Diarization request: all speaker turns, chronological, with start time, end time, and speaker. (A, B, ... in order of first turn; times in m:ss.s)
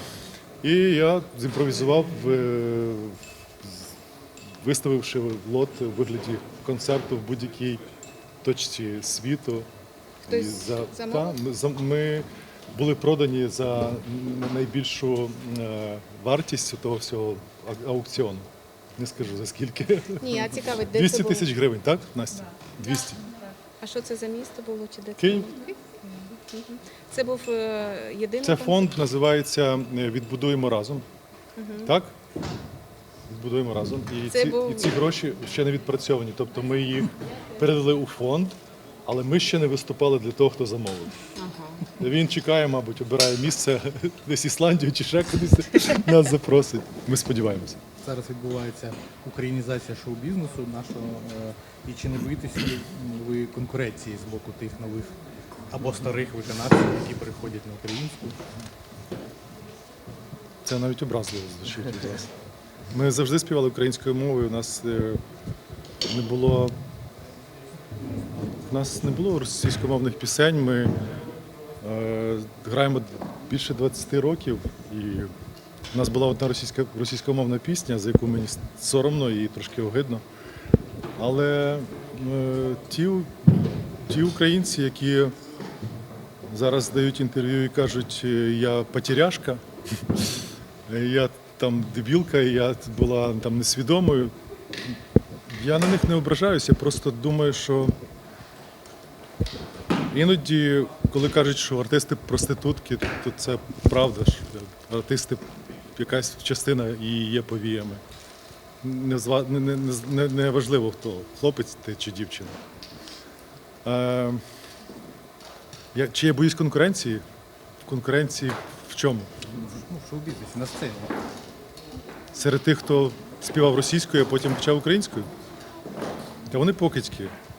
0:00.6-0:03.9 A
0:04.6-0:07.8 A
0:08.4-0:09.7 A
0:10.2-0:11.4 B
0:10.3-0:23.2 A
0:20.2-0:21.5 B
0:23.8-0:29.0 B
0:25.2-0:25.5 A
0:28.4-0:31.0 A
0:31.6-0:31.9 B
0:31.8-0:32.1 A
0:33.3-0:41.1 A
0:34.3-0:34.9 B
0:41.4-0:41.9 B
0:41.9-0:47.8 A
0:48.0-0:55.1 C
0:55.7-0:58.4 C
1:00.6-1:02.3 A
1:02.9-1:05.2 A
1:06.0-1:06.7 A
1:08.7-1:10.9 A
1:11.8-1:15.3 A
1:15.9-1:20.2 A
1:21.2-1:25.3 A
1:26.5-1:29.6 A
1:30.9-1:34.3 A
1:35.5-1:38.0 A
1:40.1-1:48.0 A
1:48.8-1:52.6 A
1:53.8-1:54.4 A
1:55.9-1:57.2 A
1:57.8-1:59.3 A
1:59.5-2:01.1 C
2:02.3-2:05.3 A
2:06.5-2:07.3 A